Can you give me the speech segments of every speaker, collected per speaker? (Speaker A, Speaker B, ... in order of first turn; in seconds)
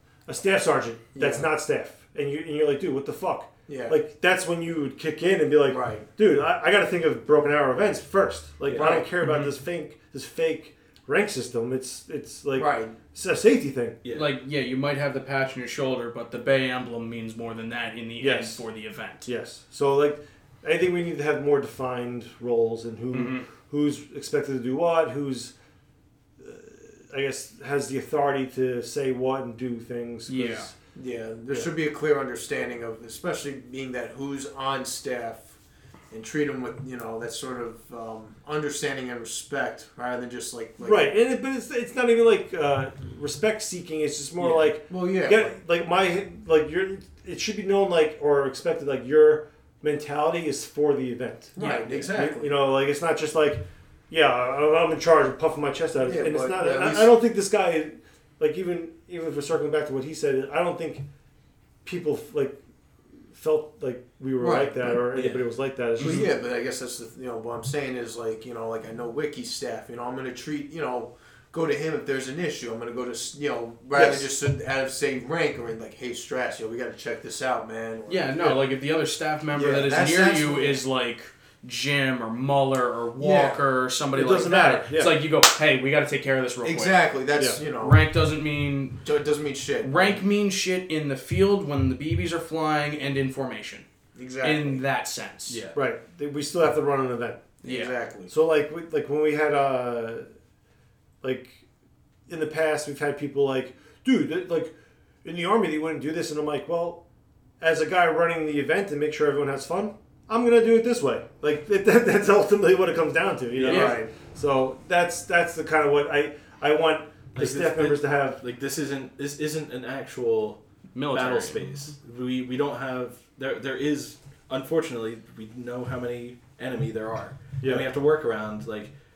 Speaker A: 0.3-14.0, 18.2-18.6, 19.2-25.5, 26.4-30.8, 40.8-61.0, 61.8-62.6, 63.3-66.3, 73.9-74.2, 84.1-85.2, 95.7-97.4, 98.3-100.3, 101.2-101.6, 102.3-107.0, 107.6-118.4, 127.6-127.9
Speaker B: 1.1-1.5, 3.7-4.0, 5.7-6.0, 8.8-9.0, 12.5-12.9, 30.9-35.5, 36.1-41.1, 44.4-45.5, 51.5-52.5, 56.0-57.1, 64.4-65.0, 66.0-78.6, 79.5-80.8, 83.2-83.6, 86.6-88.0, 89.0-90.1, 94.1-94.8, 97.6-98.3, 113.7-114.1
Speaker C: 8.7-9.0, 14.0-14.3, 65.1-65.5, 95.5-95.8, 113.5-113.9, 117.3-120.6, 121.1-128.9
Speaker D: 9.2-9.5, 14.1-19.3, 23.1-23.4, 30.3-30.7, 51.6-51.9, 78.1-87.0, 87.8-89.0, 89.8-93.8, 94.4-95.6, 97.6-97.9, 113.7-114.0, 120.9-121.6